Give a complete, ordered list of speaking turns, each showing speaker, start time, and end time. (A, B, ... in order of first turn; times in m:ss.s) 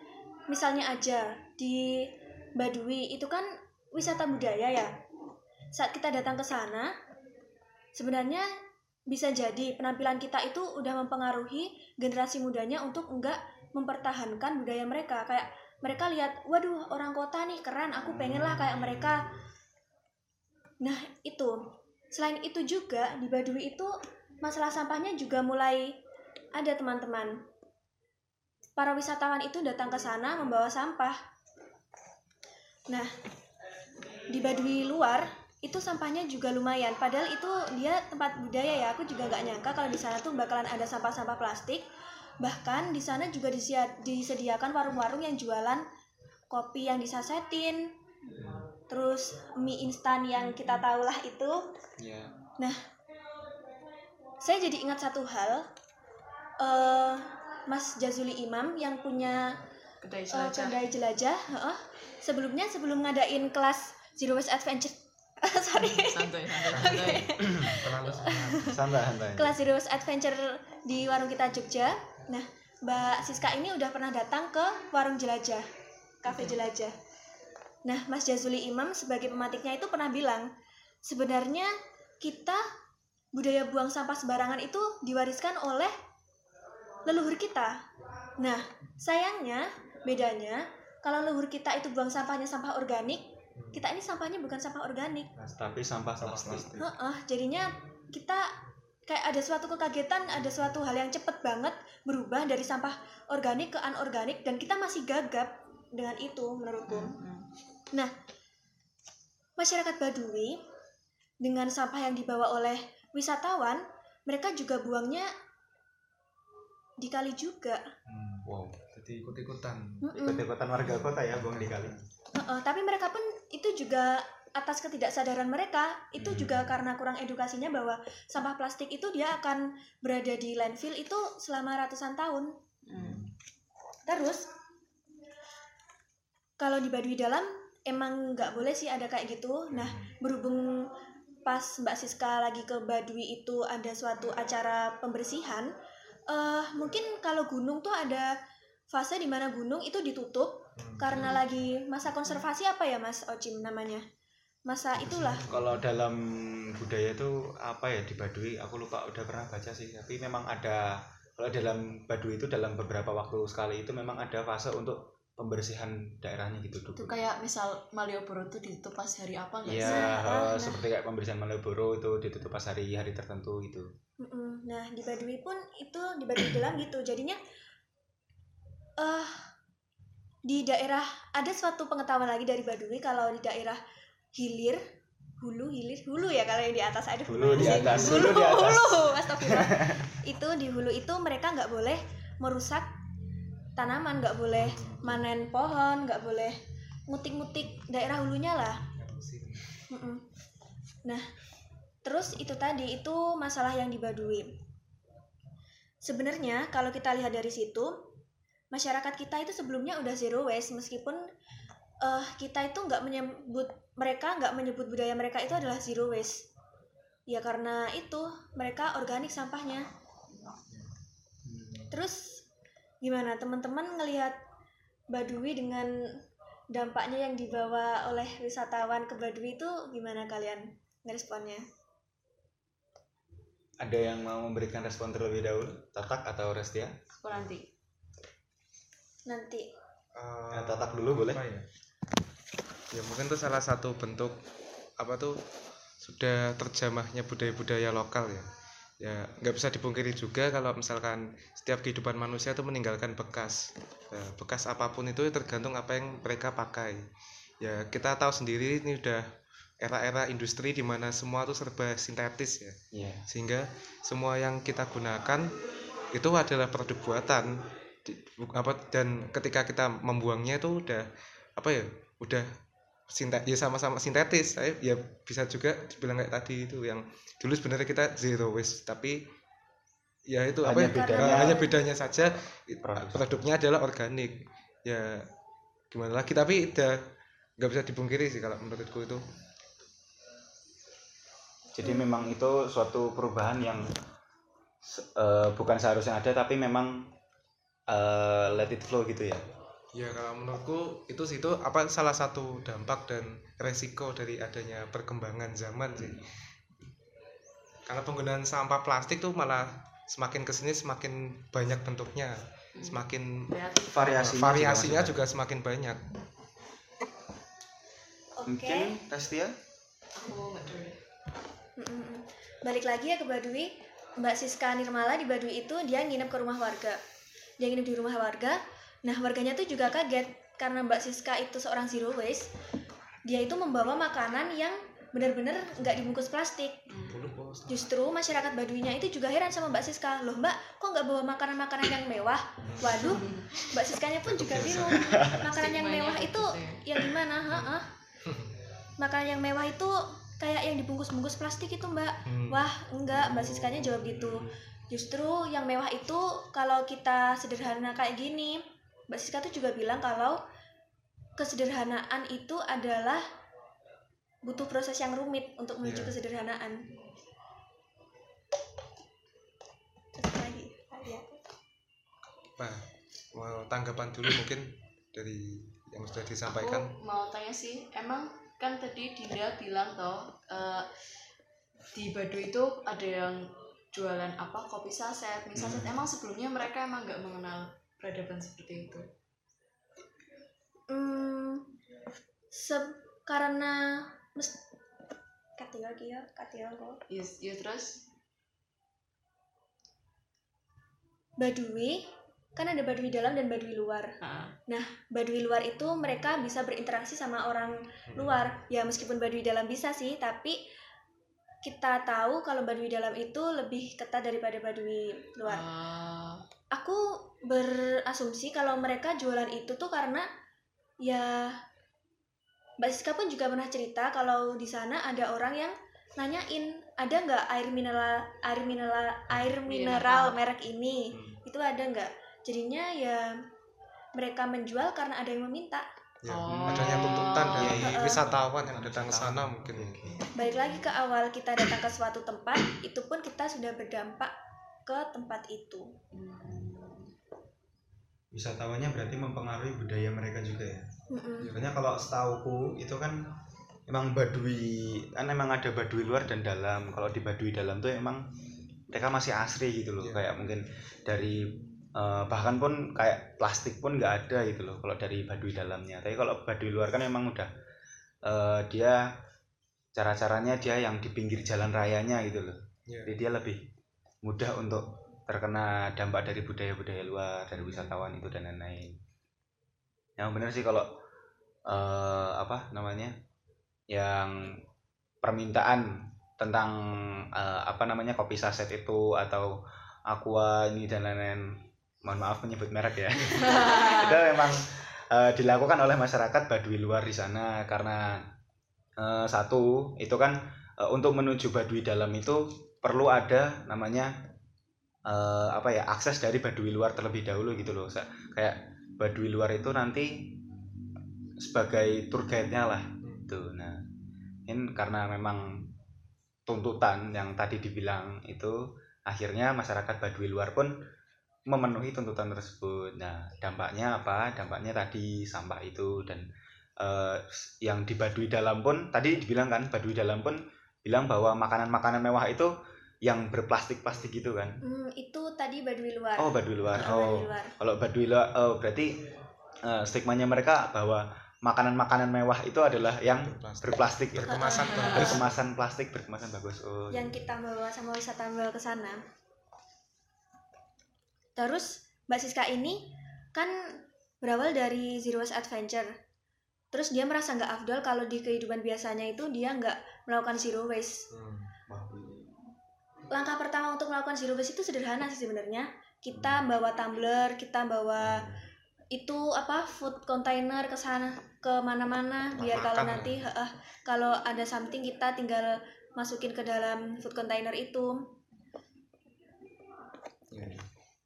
0:00.5-0:04.9 A
0:05.7-0:06.9 A
0:08.0-0:08.4 A
0:09.1-0:19.3 A
0:20.8-0:21.6 A
0:22.1-0:25.9 A
0:26.6-0:27.4 A
0:28.8-0:31.2 A
0:34.3-0:41.8 A
0:42.4-0:45.8 A
0:46.5-0:47.9 A
0:48.9-0:51.7 A
0:52.0-0:52.3 B
0:54.4-0:55.6 A
0:56.6-0:59.6 A
1:00.0-1:00.8 C
1:00.3-1:08.7 A
1:05.8-1:07.4 C
1:06.7-1:08.8 D
1:07.4-1:07.7 B
1:08.6-1:09.6 B
1:09.3-1:15.6 A
1:16.2-1:16.9 A
1:16.3-1:16.6 C
1:17.8-1:20.5 A
1:21.0-1:22.6 A
1:23.3-1:25.9 A
1:27.0-1:27.8 A
1:28.4-1:35.3 A
1:33.6-1:33.8 D
1:35.4-1:36.8 D
1:35.6-1:36.9 B
1:36.8-1:38.5 A
1:39.1-1:47.2 A
1:46.9-1:47.4 C
1:49.6-1:50.6 A
1:51.4-1:55.3 A
1:57.0-1:57.8 A
1:58.1-2:00.0 D
1:58.4-1:58.8 B
2:00.0-2:00.4 A
2:00.1-2:02.0 B
2:00.8-2:02.0 D
2:02.3-2:12.5 A
2:06.2-2:06.6 D
2:12.8-2:13.2 C
2:14.1-2:14.5 A
2:16.6-2:20.9 A
2:21.4-2:25.7 A
2:26.3-2:28.3 A
2:28.9-2:34.0 A
2:30.8-2:31.4 D
2:34.7-2:35.4 A
2:35.0-2:35.8 D
2:35.5-2:47.2 B
2:46.9-2:50.3 C
2:49.6-2:53.9 B
2:49.8-2:50.8 A
2:54.2-2:57.4 A
2:59.0-2:59.4 A
3:00.4-3:03.8 A
3:04.3-3:04.8 A
3:05.4-3:12.9 A
3:07.3-3:10.1 B
3:07.5-3:08.2 D
3:13.8-3:16.6 A
3:14.6-3:15.2 D
3:17.1-3:18.8 A
3:18.9-3:19.7 D
3:19.9-3:20.2 A
3:22.0-3:24.5 A
3:26.0-3:28.0 A
3:28.7-3:31.2 A
3:32.0-3:36.4 A
3:37.3-3:39.9 A
3:41.4-3:41.9 B
3:41.9-3:42.4 A
3:43.0-3:44.4 A
3:45.1-3:45.9 A
3:46.7-3:51.6 A
3:53.8-3:57.0 B
3:57.2-3:57.6 C
3:59.3-3:59.6 A
4:00.1-4:01.6 D
4:00.5-4:01.4 B
4:02.9-4:04.4 D
4:05.0-4:05.4 D
4:06.0-4:08.4 D
4:09.0-4:17.0 D
4:17.6-4:19.3 D
4:19.8-4:22.8 D
4:22.9-4:23.2 B
4:23.3-4:25.6 D
4:26.1-4:32.5 D
4:33.1-4:39.2 D
4:40.3-4:45.2 D
4:40.6-4:41.6 B
4:40.8-4:41.8 A
4:42.8-4:43.4 B
4:45.9-4:47.0 D
4:47.6-4:49.2 D
4:51.7-4:53.9 B
4:54.8-4:57.1 B
4:57.9-4:59.4 B
4:59.9-5:06.2 D
5:06.0-5:06.2 B
5:07.8-5:13.5 D
5:12.8-5:14.1 C
5:13.9-5:15.2 B
5:14.1-5:16.0 D
5:18.4-5:19.0 A
5:18.4-5:19.5 B
5:20.2-5:21.0 C
5:21.8-5:27.0 A
5:27.6-5:32.5 A
5:33.2-5:36.8 A
5:36.9-5:37.2 C
5:37.0-5:37.9 D
5:37.7-5:47.9 A
5:42.6-5:43.2 D
5:42.8-5:43.6 C
5:44.2-5:45.2 D
5:44.9-5:45.4 B
5:45.2-5:46.8 C
5:47.5-5:48.5 D
5:49.0-6:00.4 A
5:52.2-5:54.3 D
6:01.4-6:03.2 A
6:04.4-6:06.8 A
6:05.8-6:06.1 D
6:10.2-6:11.4 A
6:12.6-6:16.9 D
6:16.4-6:20.9 C
6:21.9-6:29.1 C
6:25.5-6:26.0 B
6:30.9-6:31.7 A
6:32.5-6:34.6 A
6:35.6-6:37.0 A
6:37.1-6:38.0 C
6:41.4-6:44.1 A
6:44.2-6:44.5 C
6:44.7-6:50.6 A
6:48.1-6:48.4 D
6:51.6-6:55.6 A
6:55.4-6:56.4 C
6:56.7-7:00.2 A
7:01.0-7:01.6 A
7:02.8-7:13.4 A
7:09.7-7:10.4 C
7:11.1-7:11.4 D
7:14.1-7:15.9 A
7:16.2-7:20.0 D
7:16.3-7:17.8 C
7:16.5-7:20.2 B
7:17.6-7:18.3 A
7:20.4-7:24.3 A
7:20.4-7:20.7 C
7:24.8-7:25.9 A
7:26.1-7:27.1 C
7:26.4-7:26.8 B
7:28.3-7:30.8 B
7:31.1-7:31.5 A
7:31.4-7:31.8 D
7:31.4-7:33.2 B
7:33.9-7:38.2 B
7:38.9-7:47.5 B
7:40.0-7:40.4 D
7:48.2-7:49.0 B
7:49.9-7:53.6 B
7:52.9-7:53.1 D
7:54.2-7:59.0 B
8:00.2-8:00.9 B
8:01.7-8:03.2 B
8:03.9-8:04.6 B
8:05.2-8:09.5 B
8:10.1-8:18.2 B
8:13.3-8:14.3 C
8:19.0-8:24.1 B
8:25.1-8:30.3 B
8:31.4-8:33.8 B
8:34.5-8:35.7 B
8:36.5-8:40.8 B
8:41.5-8:46.2 B
8:46.8-8:52.5 B
8:53.0-8:54.6 B
8:54.6-8:57.5 A
8:56.2-8:59.0 B
8:59.6-9:04.4 B
9:03.0-9:05.4 D
9:04.3-9:05.2 A
9:04.5-9:05.2 C
9:04.9-9:07.1 B
9:06.9-9:09.0 A
9:11.4-9:15.9 A
9:16.7-9:21.0 A
9:21.1-9:21.5 D
9:21.7-9:22.3 B
9:23.1-9:28.2 A
9:26.1-9:26.4 B
9:28.0-9:28.4 D
9:28.9-9:38.1 A
9:32.4-9:33.2 D
9:40.3-9:40.6 D